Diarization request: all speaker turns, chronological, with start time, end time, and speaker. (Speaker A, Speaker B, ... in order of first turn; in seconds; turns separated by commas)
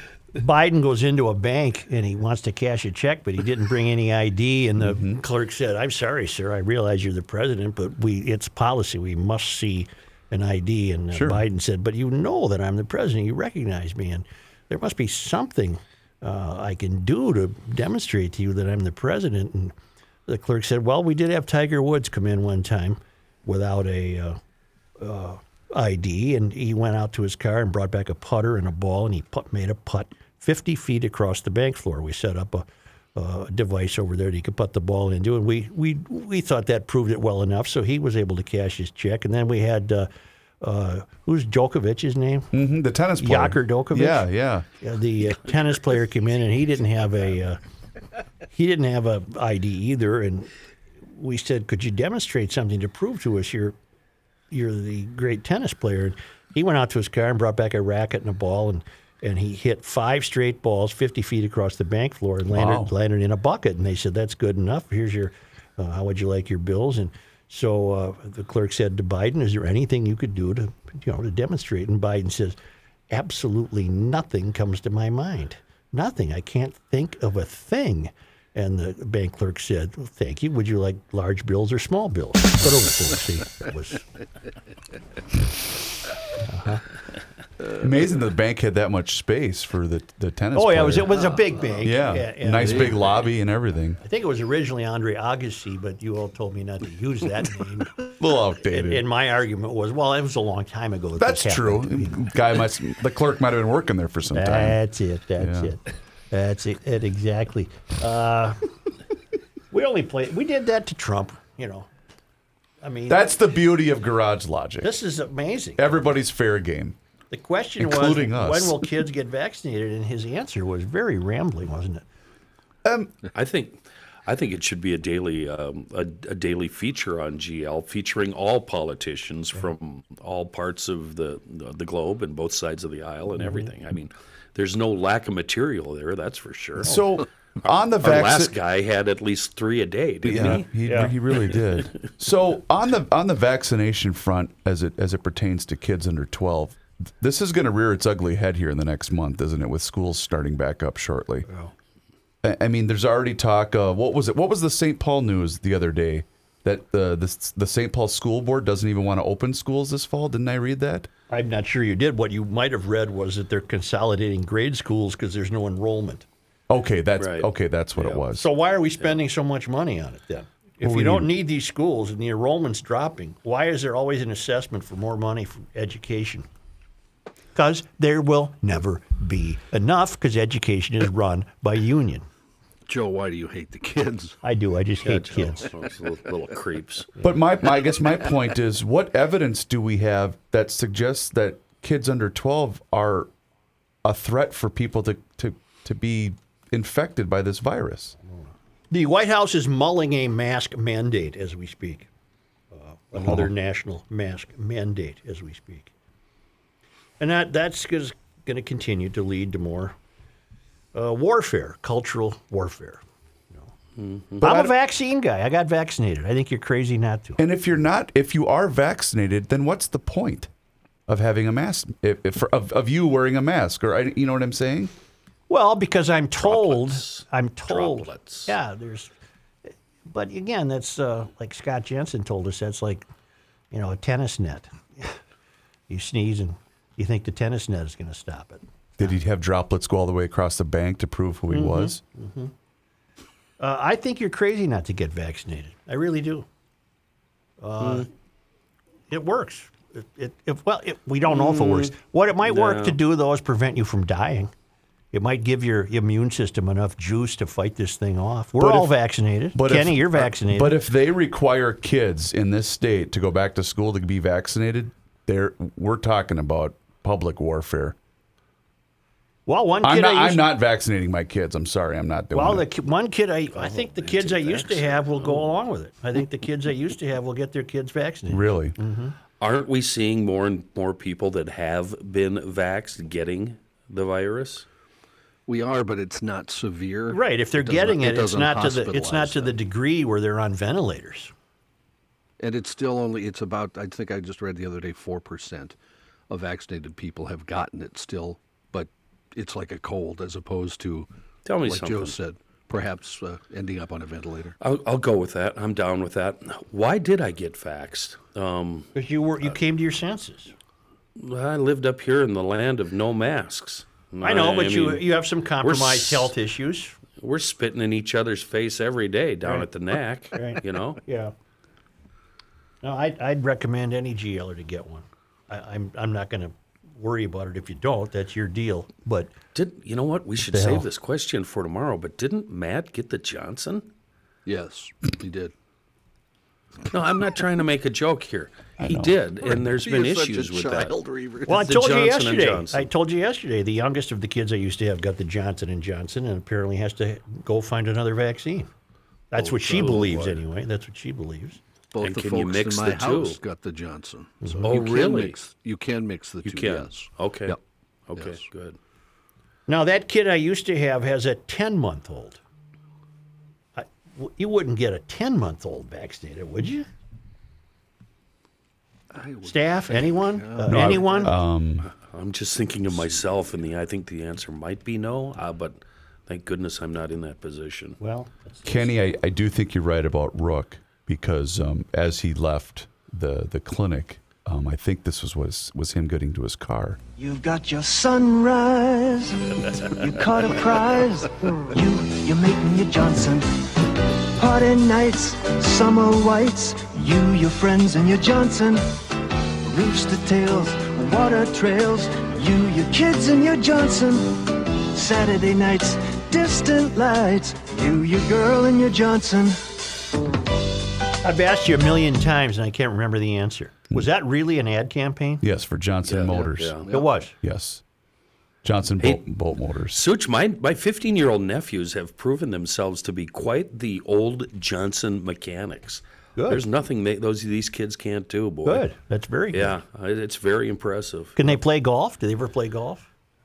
Speaker A: 0.3-19.7, Speaker B: 4.8-5.2, Speaker B: 11.1-11.4, Speaker A: 20.3-24.4, Speaker A: 25.0-40.1, Speaker A: 40.6-42.5, Speaker B: 42.5-44.7, Speaker A: 43.2-44.2, Speaker A: 44.8-47.6, Speaker A: 48.5-50.5, Speaker A: 51.1-53.8, Speaker A: 54.5-72.6, Speaker B: 62.5-62.9, Speaker A: 73.1-84.0, Speaker A: 86.5-86.8, Speaker B: 87.8-91.2, Speaker A: 90.5-93.2, Speaker C: 91.2-91.9, Speaker B: 91.8-94.0, Speaker C: 92.6-93.0, Speaker A: 94.0-98.1, Speaker B: 98.0-99.0, Speaker A: 98.7-102.3, Speaker B: 101.2-104.8, Speaker A: 104.3-108.6, Speaker B: 105.4-105.7, Speaker A: 109.7-111.9, Speaker A: 112.8-113.3, Speaker B: 113.1-115.0, Speaker A: 114.8-115.9, Speaker B: 115.8-117.0, Speaker A: 117.3-122.0, Speaker B: 117.8-118.9, Speaker B: 122.8-123.1, Speaker D: 123.3-137.0, Speaker A: 133.4-133.7, Speaker B: 136.8-138.5, Speaker D: 137.6-140.7, Speaker B: 140.2-151.5, Speaker A: 151.5-151.7, Speaker B: 152.4-161.1, Speaker A: 161.3-166.3, Speaker B: 166.7-168.5, Speaker D: 167.2-167.5, Speaker A: 168.3-176.5, Speaker B: 170.8-171.3, Speaker A: 177.6-182.3, Speaker C: 182.9-184.4, Speaker A: 184.4-185.6, Speaker D: 185.1-187.1, Speaker B: 187.2-193.3, Speaker B: 194.0-198.2, Speaker A: 198.9-202.1, Speaker A: 202.7-205.9, Speaker B: 203.2-203.5, Speaker A: 207.2-209.9, Speaker A: 210.9-213.0, Speaker D: 214.0-214.7, Speaker A: 214.4-217.4, Speaker B: 217.4-220.5, Speaker B: 221.1-224.9, Speaker A: 225.5-229.1, Speaker D: 226.4-228.5, Speaker A: 230.1-233.1, Speaker A: 233.7-235.2, Speaker A: 235.9-238.6, Speaker B: 239.0-242.0, Speaker A: 241.5-242.5, Speaker A: 243.6-246.5, Speaker A: 247.6-248.1, Speaker D: 247.8-248.1, Speaker A: 249.1-254.5, Speaker D: 251.3-251.9, Speaker D: 252.4-253.0, Speaker A: 255.1-260.8, Speaker B: 258.6-258.9, Speaker B: 259.5-268.0, Speaker A: 269.5-270.5, Speaker B: 269.8-272.7, Speaker A: 272.3-279.1, Speaker C: 273.6-275.0, Speaker B: 278.3-278.8, Speaker D: 279.4-284.6, Speaker C: 285.5-289.5, Speaker A: 287.1-291.3, Speaker C: 292.4-295.7, Speaker C: 296.3-301.1, Speaker D: 301.5-302.2, Speaker C: 301.6-304.6, Speaker D: 304.6-308.9, Speaker A: 308.9-310.5, Speaker D: 311.2-315.1, Speaker A: 314.2-317.0, Speaker D: 315.6-316.3, Speaker D: 317.2-321.0, Speaker A: 320.3-321.3, Speaker A: 322.8-329.3, Speaker D: 329.6-333.9, Speaker A: 330.5-330.9, Speaker C: 334.5-335.5, Speaker D: 336.9-340.9, Speaker B: 338.8-339.2, Speaker C: 339.4-341.7, Speaker A: 341.5-348.7, Speaker D: 341.5-342.9, Speaker A: 349.3-351.6, Speaker C: 349.4-350.4, Speaker C: 351.9-357.6, Speaker D: 352.0-353.4, Speaker D: 354.6-355.4, Speaker D: 356.4-357.6, Speaker D: 358.1-358.8, Speaker C: 358.2-358.4, Speaker A: 359.7-362.4, Speaker A: 363.8-366.9, Speaker C: 369.1-371.4, Speaker A: 369.4-371.4, Speaker B: 370.7-371.9, Speaker D: 372.0-378.0, Speaker C: 372.9-373.3, Speaker A: 378.0-378.7, Speaker B: 378.6-387.0, Speaker E: 387.2-393.7, Speaker E: 394.4-398.9, Speaker E: 399.7-409.6, Speaker A: 411.2-415.4, Speaker B: 415.4-416.8, Speaker D: 416.1-416.9, Speaker C: 416.3-417.1, Speaker A: 416.9-417.3, Speaker B: 417.4-417.8, Speaker B: 418.6-420.0, Speaker D: 419.9-428.9, Speaker A: 426.4-426.6, Speaker A: 428.6-429.8, Speaker D: 429.5-431.6, Speaker A: 431.4-433.1